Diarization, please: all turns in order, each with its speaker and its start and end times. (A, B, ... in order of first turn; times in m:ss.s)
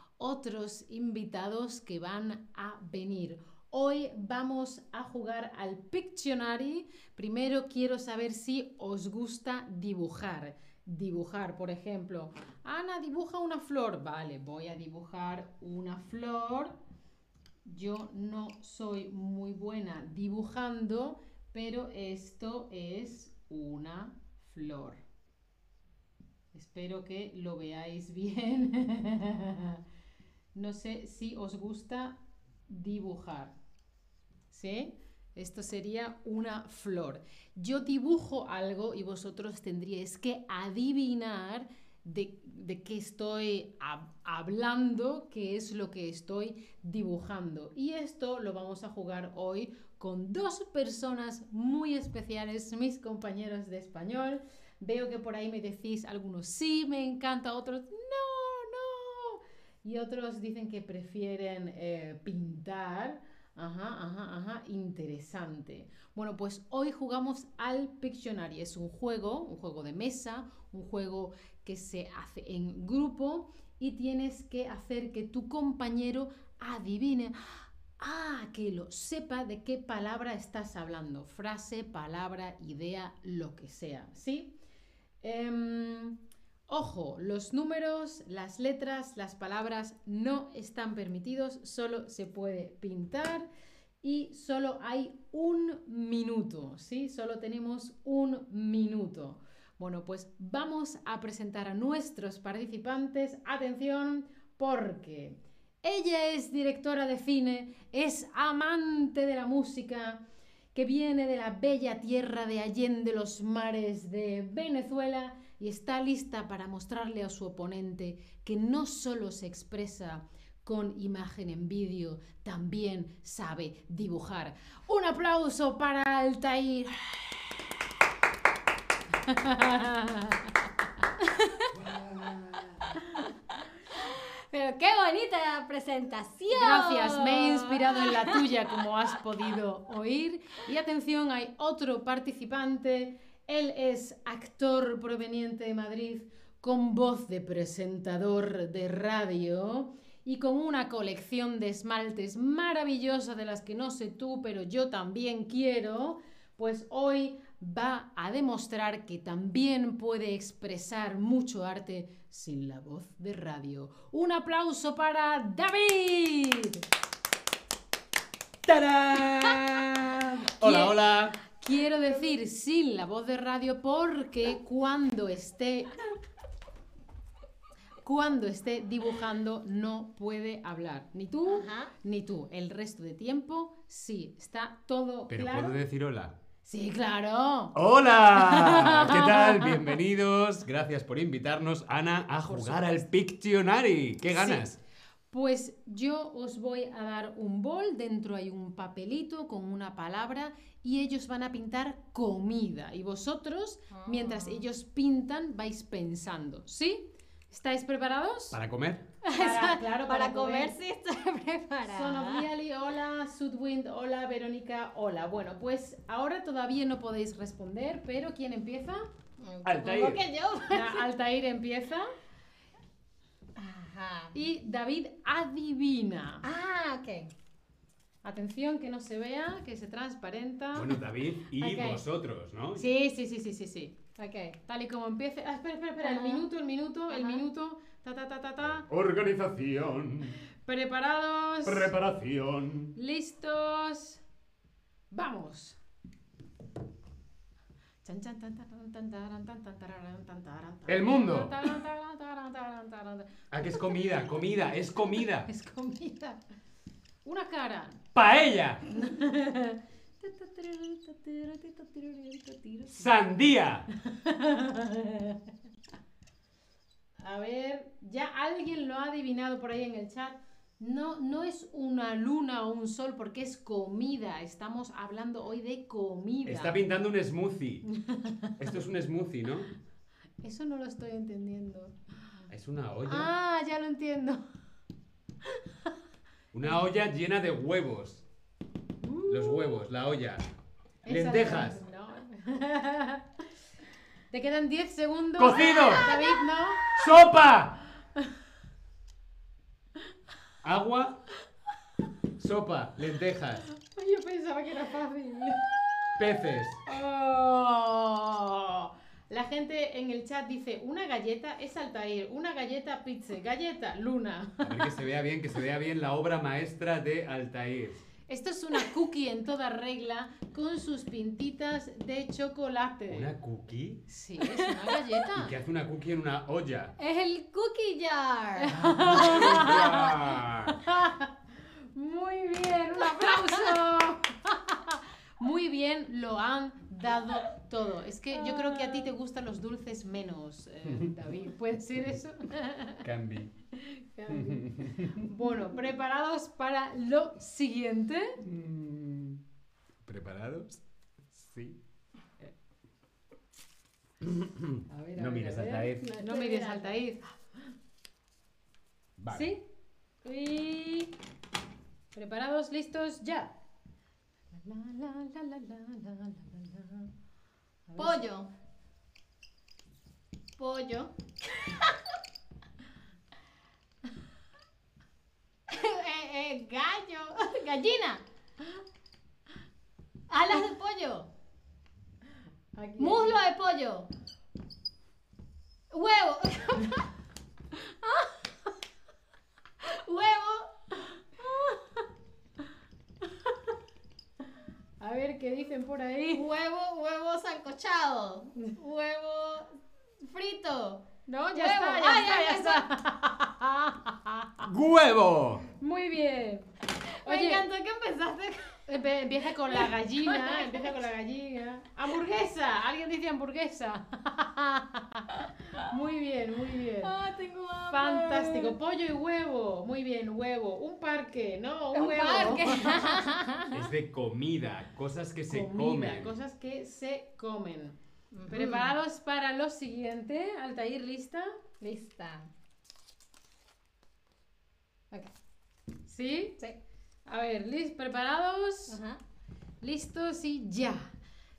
0:00.2-0:16.8 A
0:17.6-0:25.0 A
0:26.5-0:29.8 A
0:30.5-0:33.6 A
0:34.5-1:24.6 A
1:25.2-1:33.5 A
1:34.0-1:50.2 A
1:50.7-2:07.6 A
2:09.1-2:10.7 A
2:11.7-2:12.9 B
2:13.9-2:18.5 C
2:16.5-2:46.8 A
2:48.6-2:51.4 B
2:49.2-2:49.8 A
2:50.6-2:51.0 A
2:51.5-2:56.0 A
2:58.0-3:05.8 A
3:01.5-3:01.9 C
3:05.3-3:06.3 B
3:06.6-3:07.7 A
3:07.7-3:14.8 B
3:08.4-3:09.9 A
3:12.4-3:13.1 A
3:14.3-3:14.7 A
3:15.3-3:28.6 A
3:23.9-3:24.7 C
3:28.5-3:29.0 B
3:29.2-3:32.4 C
3:29.3-3:30.7 A
3:31.9-3:39.0 A
3:39.4-3:41.0 C
3:39.6-3:40.2 B
3:40.7-3:42.0 A
3:43.6-3:44.3 C
3:44.3-3:46.5 A
3:46.4-3:47.3 C
3:48.2-3:51.0 A
3:50.7-3:52.9 B
3:51.6-3:52.0 A
3:52.7-3:54.0 A
3:54.2-3:54.6 C
3:54.7-3:58.8 A
3:56.0-3:56.4 C
3:57.1-3:57.4 C
3:58.8-4:00.4 B
4:00.6-4:01.9 A
4:01.6-4:03.0 B
4:03.0-4:04.2 A
4:05.1-4:05.8 A
4:08.0-4:14.2 A
4:10.9-4:11.5 B
4:13.5-4:15.5 B
4:15.1-4:16.4 A
4:17.2-4:18.0 A
4:18.1-4:18.8 B
4:18.9-4:23.2 A
4:22.9-4:23.9 B
4:24.0-4:25.4 A
4:27.2-4:36.8 A
4:36.4-4:37.8 B
4:37.9-4:38.8 A
4:38.6-4:39.7 B
4:40.4-4:41.9 A
4:42.5-4:43.3 B
4:43.0-4:44.4 A
4:46.5-4:48.2 B
4:49.0-4:49.8 A
4:49.3-4:50.4 B
4:51.0-4:53.3 A
4:51.1-4:51.8 B
4:54.3-4:57.1 A
4:55.4-4:56.1 B
4:56.0-4:56.3 C
4:56.8-4:57.8 B
5:00.6-5:01.2 B
5:02.4-5:03.6 B
5:03.7-5:06.2 A
5:06.2-5:06.8 B
5:06.8-5:15.0 A
5:14.6-5:18.0 B
5:18.3-5:23.3 A
5:23.1-5:24.0 B
5:24.1-5:25.5 A
5:24.6-5:24.8 C
5:25.3-5:26.9 B
5:27.0-5:29.7 C
5:28.6-5:31.4 A
5:28.8-5:30.8 B
5:31.9-5:43.0 A
5:33.0-5:33.8 C
5:38.3-5:39.1 C
5:40.9-5:41.1 B
5:43.0-5:43.5 B
5:43.8-5:48.4 A
5:44.3-5:45.1 B
5:48.4-5:49.4 B
5:50.0-5:50.8 B
5:51.3-5:51.8 B
5:54.2-5:56.1 B
5:54.9-5:57.3 A
5:55.8-5:57.0 C
5:59.2-5:59.5 B
5:59.3-5:59.6 A
6:00.2-6:01.1 A
6:02.1-6:03.5 A
6:04.5-6:07.1 A
6:07.9-6:08.2 A
6:08.0-6:08.5 C
6:10.6-6:11.1 C
6:15.7-6:18.2 C
6:20.3-6:21.3 C
6:22.7-6:23.4 A
6:23.0-6:24.1 C
6:25.9-6:27.0 C
6:29.8-6:30.7 C
6:35.0-6:36.4 A
6:36.3-6:39.7 C
6:40.2-6:42.9 C
6:41.2-6:44.6 A
6:44.6-6:45.6 B
6:45.8-6:46.7 A
6:47.2-6:48.8 C
6:47.2-6:47.7 A
6:48.9-6:57.1 A
6:49.6-6:51.0 C
6:57.0-6:58.7 C
6:57.9-7:03.1 A
7:01.9-7:03.7 C
7:03.7-7:06.3 B
7:05.5-7:07.9 A
7:08.3-7:08.9 C
7:08.5-7:11.6 A
7:11.8-7:12.5 C
7:16.0-7:16.6 A
7:17.2-7:19.0 A
7:18.9-7:19.2 C
7:19.8-7:21.1 A